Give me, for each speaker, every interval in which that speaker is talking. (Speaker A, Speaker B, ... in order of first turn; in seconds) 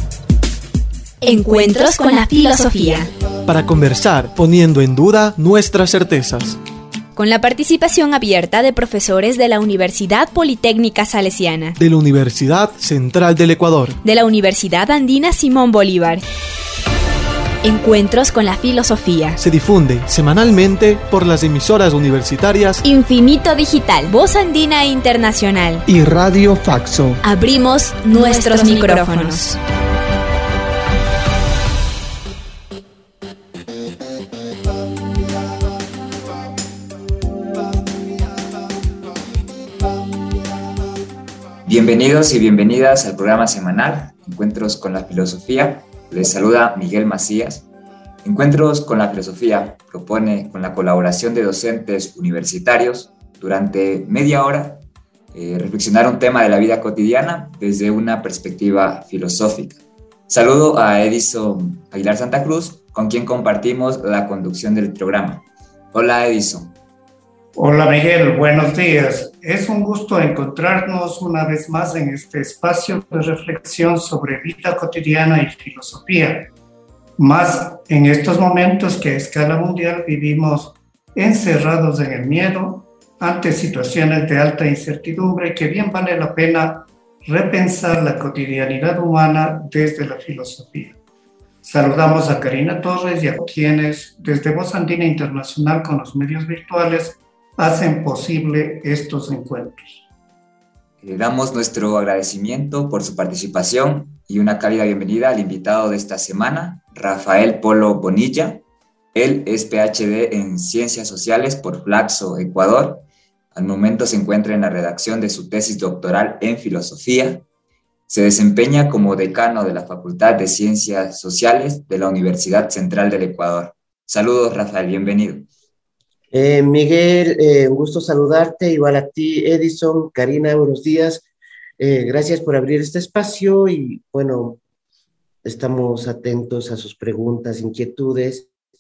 Speaker A: 1.2-3.1, 7.2-11.8, 14.0-16.2, 17.6-19.4, 22.8-25.9, 27.2-29.6
Speaker B: 3.5-6.6, 11.8-14.0, 19.4-22.8, 25.9-27.2
Speaker C: 41.6-47.7, 48.2-66.8, 101.0-108.6, 109.1-117.4, 118.1-125.5
Speaker D: 67.5-76.5, 77.2-91.0, 91.6-99.9
Speaker E: 126.3-131.3, 131.8-134.6, 135.4-138.5